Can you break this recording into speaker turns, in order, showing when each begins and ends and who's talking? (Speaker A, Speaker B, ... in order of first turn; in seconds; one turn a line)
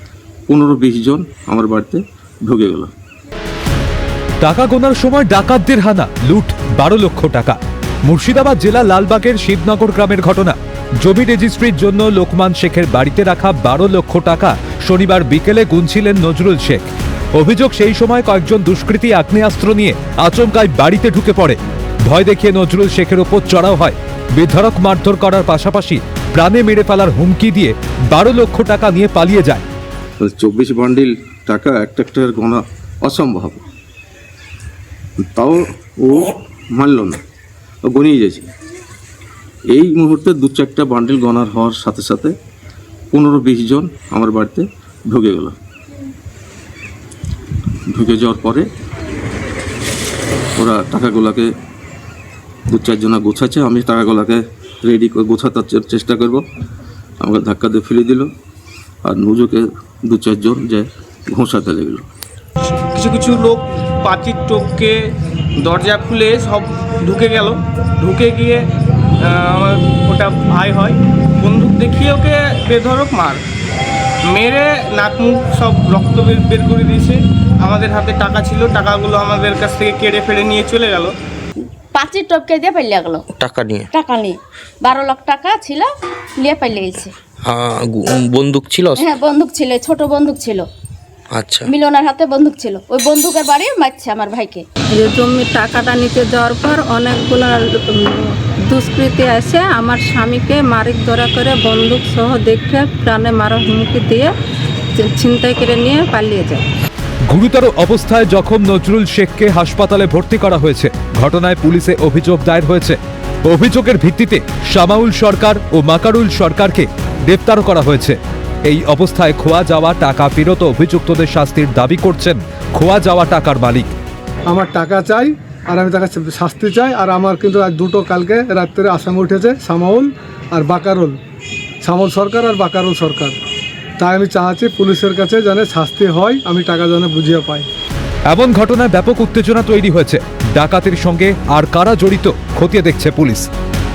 Speaker A: 0.5-2.9
Speaker B: 4.4-29.6
Speaker A: 30.2-33.6
Speaker A: 35.3-37.2
Speaker A: 37.9-38.5
Speaker A: 39.7-42.3
Speaker A: 43.1-45.5
Speaker A: 47.9-48.7
Speaker A: 50.6-51.5
Speaker A: 52.7-56.4
Speaker A: 57.2-58.3
Speaker A: 59.0-62.1
Speaker C: 62.9-65.0
Speaker C: 65.6-68.6
Speaker C: 69.2-73.4
Speaker C: 74.3-81.1
Speaker D: 81.9-83.2
Speaker E: 83.4-83.9
Speaker D: 83.9-87.1
Speaker E: 87.5-89.0
Speaker D: 88.9-90.7
Speaker E: 91.3-91.7
Speaker D: 91.7-94.6
Speaker F: 94.9-104.3
Speaker F: 104.9-106.6
Speaker B: 107.3-123.9
Speaker G: 124.5-131.2
Speaker G: 131.8-133.4
Speaker G: 134.0-137.7
Speaker B: 138.3-143.5